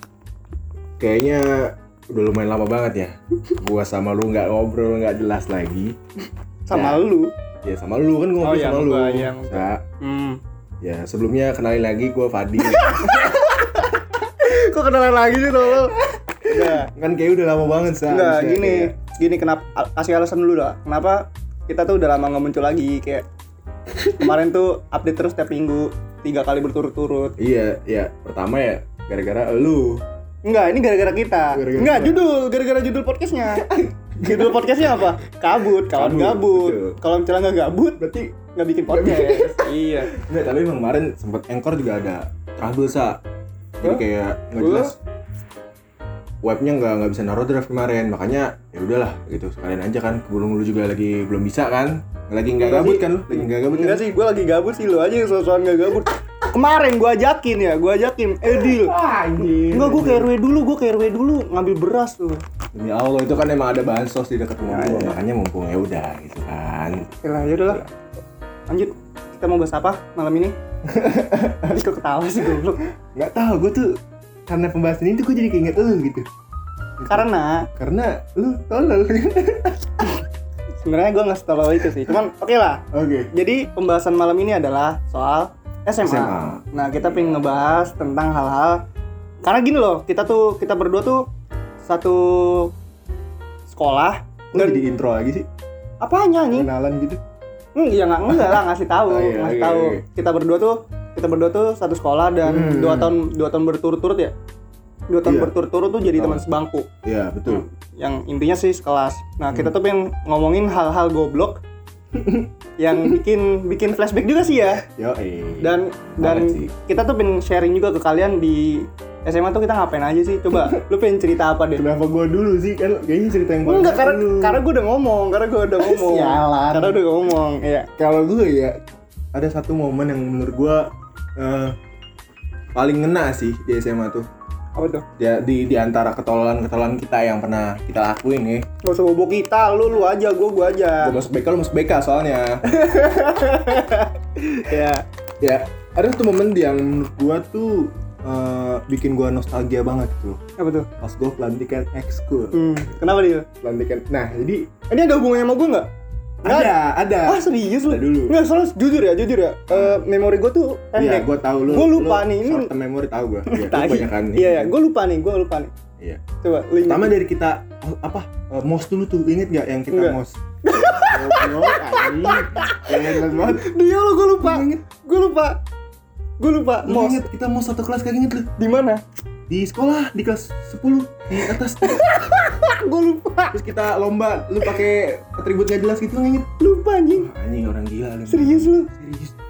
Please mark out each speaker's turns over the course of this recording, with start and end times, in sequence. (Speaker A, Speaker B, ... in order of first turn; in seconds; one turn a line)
Speaker A: 1.0-5.9
Speaker B: 6.7-7.3
Speaker A: 6.7-7.0
Speaker A: 7.6-9.8
Speaker B: 8.4-10.4
Speaker A: 10.8-13.4
Speaker B: 12.6-16.9
Speaker A: 16.5-18.9
Speaker B: 18.0-23.2
Speaker B: 23.9-27.3
Speaker A: 27.4-30.0
Speaker B: 30.4-33.6
Speaker A: 31.5-32.3
Speaker A: 33.4-35.0
Speaker B: 34.2-40.1
Speaker A: 35.6-37.0
Speaker A: 38.0-43.2
Speaker A: 43.8-45.0
Speaker B: 44.6-44.9
Speaker A: 46.4-54.1
Speaker B: 52.6-62.4
Speaker A: 58.4-60.3
Speaker A: 62.7-67.9
Speaker B: 64.6-65.2
Speaker B: 67.1-67.9
Speaker B: 68.7-70.5
Speaker A: 70.8-71.8
Speaker B: 71.6-72.8
Speaker A: 72.4-76.2
Speaker A: 77.0-80.2
Speaker B: 77.1-77.7
Speaker B: 80.8-88.8
Speaker A: 82.9-83.3
Speaker A: 86.0-87.3
Speaker B: 89.4-91.2
Speaker B: 91.8-92.7
Speaker B: 93.7-94.8
Speaker A: 94.5-95.5
Speaker B: 96.0-96.7
Speaker A: 96.5-97.2
Speaker B: 97.7-104.3
Speaker A: 98.2-100.0
Speaker A: 102.4-103.2
Speaker B: 105.1-106.9
Speaker A: 105.2-105.5
Speaker A: 106.1-106.4
Speaker A: 107.0-107.7
Speaker B: 107.4-111.6
Speaker A: 109.5-109.7
Speaker A: 112.1-113.2
Speaker B: 112.8-114.8
Speaker A: 114.8-116.7
Speaker B: 115.6-121.8
Speaker A: 120.5-120.8
Speaker A: 121.7-124.6
Speaker B: 123.6-127.9
Speaker A: 125.8-127.0
Speaker A: 128.0-128.8
Speaker A: 129.3-131.8
Speaker A: 132.7-134.2
Speaker B: 134.8-135.1
Speaker A: 135.2-138.6
Speaker B: 138.8-141.2
Speaker A: 141.0-142.6
Speaker B: 142.7-145.0
Speaker A: 145.4-150.4
Speaker B: 150.6-150.9
Speaker A: 150.9-153.0
Speaker B: 152.5-153.5
Speaker A: 153.5-154.8
Speaker B: 154.8-155.9
Speaker A: 156.4-158.4
Speaker B: 156.4-162.7
Speaker A: 159.7-160.0
Speaker A: 160.9-164.7
Speaker B: 163.5-165.7
Speaker A: 166.0-166.2
Speaker B: 166.3-167.2
Speaker A: 166.8-170.4
Speaker B: 169.9-175.6
Speaker A: 171.1-173.7
Speaker A: 174.4-174.9
Speaker B: 176.4-177.2
Speaker A: 176.8-178.5
Speaker B: 178.6-179.0
Speaker A: 179.5-182.2
Speaker B: 181.8-183.6
Speaker A: 183.5-186.5
Speaker B: 186.6-187.3
Speaker A: 187.1-189.3
Speaker B: 188.3-188.9